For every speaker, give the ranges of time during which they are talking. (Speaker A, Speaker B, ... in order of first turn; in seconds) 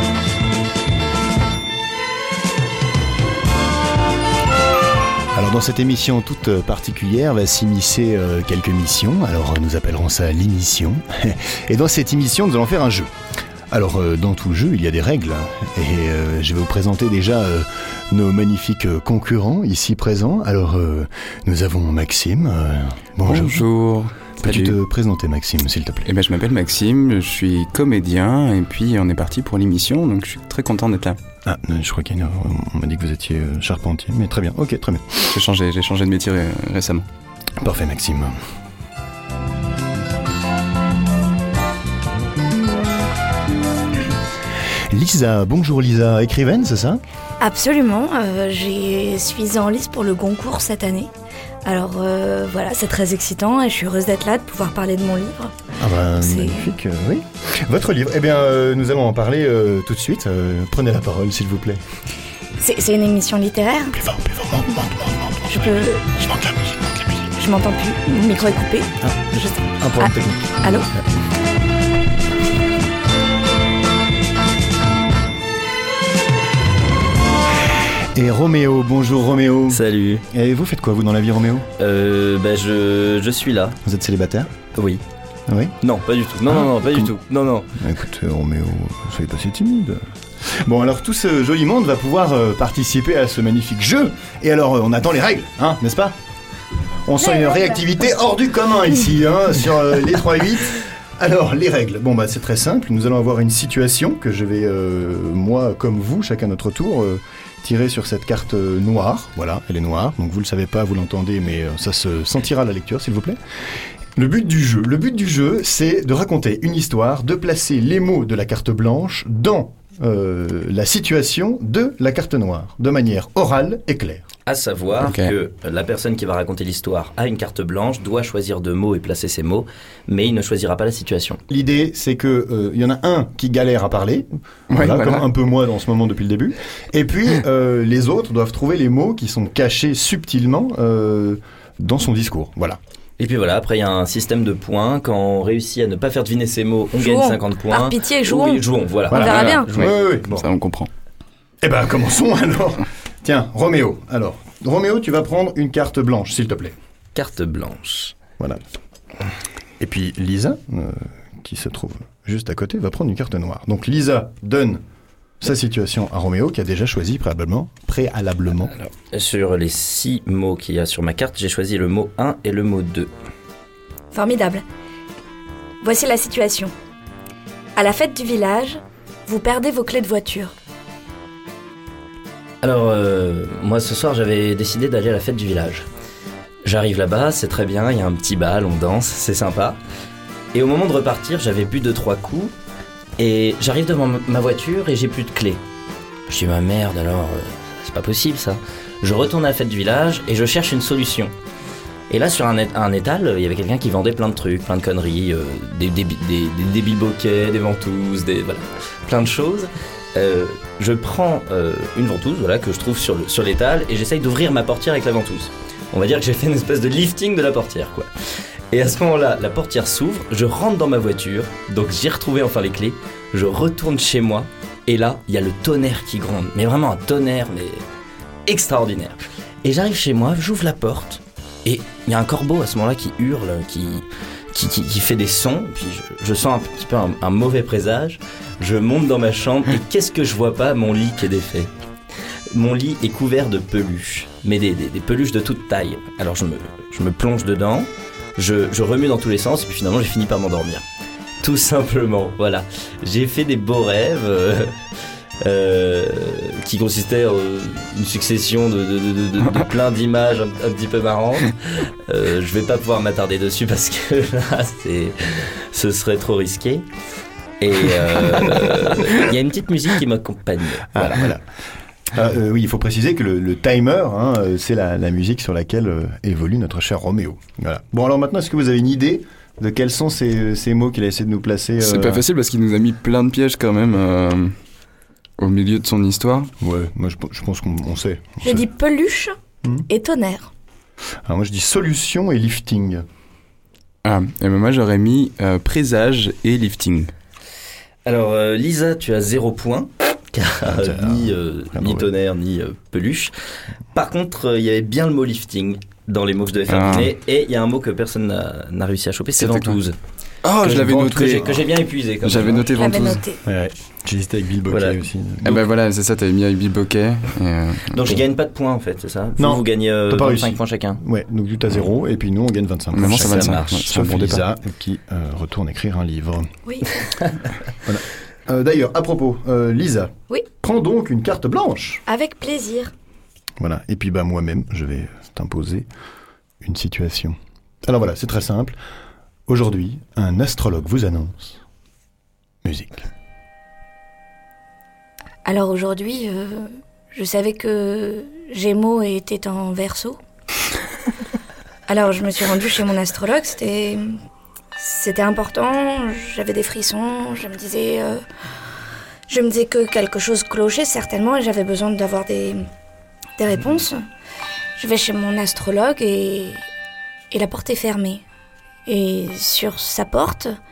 Speaker A: 5.3-13.1, 13.7-23.7, 24.4-26.1, 31.4-35.3, 37.6-38.4, 44.9-47.0, 55.8-61.8, 63.9-67.3, 70.0-70.3, 70.9-71.2, 78.1-81.7, 83.8-84.5, 85.5-85.8, 86.8-87.1, 87.8-96.2, 97.0-124.3, 131.5-142.8, 149.1-150.5, 151.6-156.8, 159.8-164.8, 165.4-168.7, 270.9-271.5, 272.1-282.2, 286.6-288.7, 291.2-293.1, 300.6-302.1, 310.6-311.6, 313.4-315.6, 319.4-326.5, 327.9-332.0, 333.6-335.9, 336.6-338.8, 339.5-341.6, 342.6-343.1
Speaker B: 23.2-24.8, 26.1-31.2, 35.3-37.1, 125.0-125.3, 134.7-135.2, 149.1-150.9, 281.8-284.6, 285.4-286.5, 294.0-297.1, 306.7-307.1, 309.4-309.8, 310.4-311.6, 312.2-313.2, 315.4-318.2, 322.9-324.4
Speaker C: 47.4-51.1, 51.6-55.6, 56.1-56.7, 62.6-64.0, 65.5-66.1, 67.4-69.0, 70.0-70.9, 97.4-97.8, 147.0-149.7, 174.1-174.6, 175.8-176.7, 177.8-180.5, 288.4-289.4, 289.9-290.5, 312.7-313.4, 326.7-326.9, 332.1-332.9, 345.4-350.2, 351.9-354.2, 354.8-358.2, 359.3-362.7, 363.4-364.0, 364.8-366.6, 367.3-368.2, 368.9-370.6
Speaker D: 69.3-70.3, 79.7-80.2, 81.8-83.8, 84.8-85.0, 85.8-87.8, 124.5-131.4, 143.2-149.5, 157.2-158.2, 168.7-173.1, 182.6-185.9, 186.6-189.8, 190.5-192.5, 193.2-195.6, 196.3-201.3, 202.1-227.8, 228.5-241.7, 242.5-250.8, 251.4-254.8, 255.4-266.9, 267.6-271.3, 298.1-303.3, 303.9-310.0, 310.6-312.7, 314.7-315.0, 317.9-321.0, 322.9-324.0